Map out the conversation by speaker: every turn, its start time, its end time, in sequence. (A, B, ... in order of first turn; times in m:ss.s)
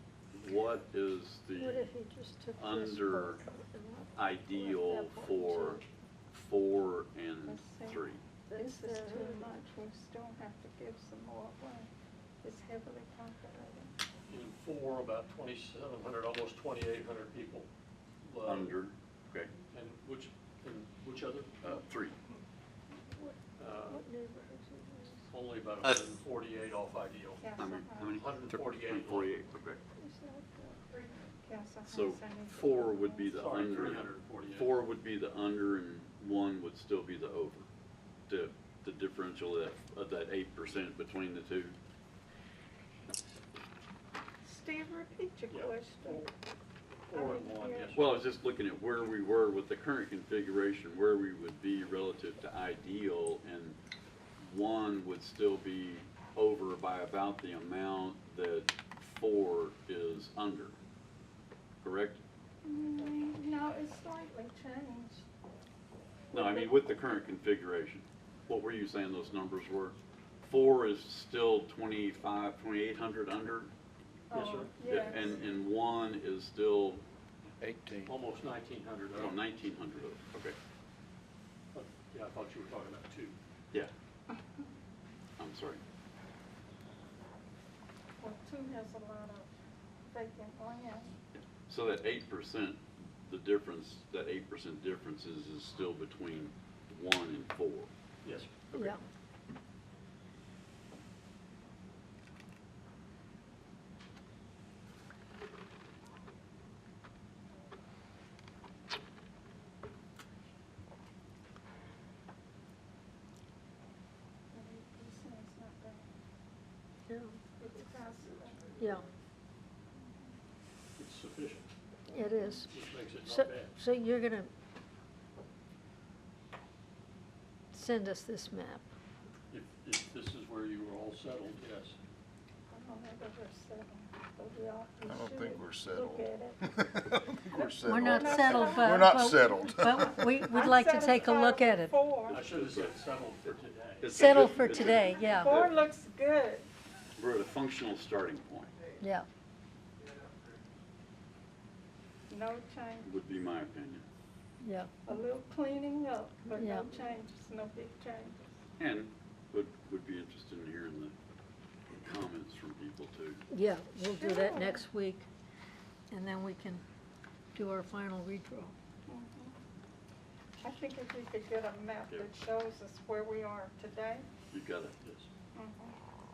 0:00.3-0:01.9 A
0:01.6-0:04.1 B
0:02.6-0:03.4 A
0:04.2-0:08.2 A
0:04.7-0:05.8 B
0:07.4-0:11.9 C
0:08.5-0:09.5 B
0:12.4-0:13.9 C
0:14.3-0:17.7 D
0:18.2-0:18.8 D
0:18.4-0:19.5 A
0:19.7-0:21.7 D
0:21.6-0:22.2 A
0:22.9-0:23.4 C
0:23.6-0:24.0 D
0:23.9-0:25.2 B
0:25.3-0:27.5 D
0:27.4-0:28.2 C
0:27.6-0:29.8 A
0:28.1-0:29.3 D
0:30.0-0:33.7 C
0:31.9-0:37.7 A
0:33.3-0:34.8 D
0:38.3-0:41.8 A
0:44.4-0:46.3 C
0:45.5-0:46.3 D
0:47.1-0:48.1 D
0:47.1-0:48.0 C
0:47.9-0:53.8 A
0:54.4-1:00.8 A
1:01.8-1:02.2 A
1:02.6-1:05.2 C
1:06.3-1:13.7 A
1:06.3-1:06.8 C
1:14.3-1:14.8 D
1:14.3-1:15.4 C
1:14.8-1:17.0 A
1:17.6-1:18.2 E
1:18.1-1:19.4 D
1:19.1-1:20.6 A
1:21.7-1:23.4 D
1:25.4-1:25.8 A
1:28.2-1:29.5 C
1:30.1-1:31.2 C
1:31.4-1:37.9 A
1:38.2-1:39.0 D
1:38.7-1:39.0 B
1:54.5-1:56.1 C
1:57.1-1:57.4 B
1:57.6-1:58.8 C
1:58.8-1:59.0 B
2:00.0-2:00.3 C
2:01.0-2:03.8 D
2:02.1-2:02.7 B
2:03.2-2:04.5 B
2:07.7-2:08.8 B
2:09.5-2:12.0 D
2:12.7-2:16.6 C
2:15.0-2:20.5 E
2:17.5-2:19.2 C
2:17.8-2:22.0 B
2:20.0-2:22.4 C
2:22.3-2:24.3 D
2:22.3-2:25.9 A
2:24.2-2:25.5 B
2:25.2-2:26.7 C
2:27.2-2:28.7 A
2:29.0-2:29.3 B
2:32.3-2:33.1 C
2:33.0-2:34.0 A
2:34.6-2:34.9 B
2:35.1-2:38.5 C
2:36.6-2:36.9 B
2:38.8-2:41.1 A
2:42.0-2:43.4 A
2:43.5-2:45.3 B
2:44.0-2:44.8 C
2:46.1-2:46.8 B
2:47.5-2:48.7 B
2:49.1-2:49.5 C
2:50.6-2:54.3 C
2:54.5-2:55.0 A
2:55.0-2:55.3 D
2:55.5-2:56.0 C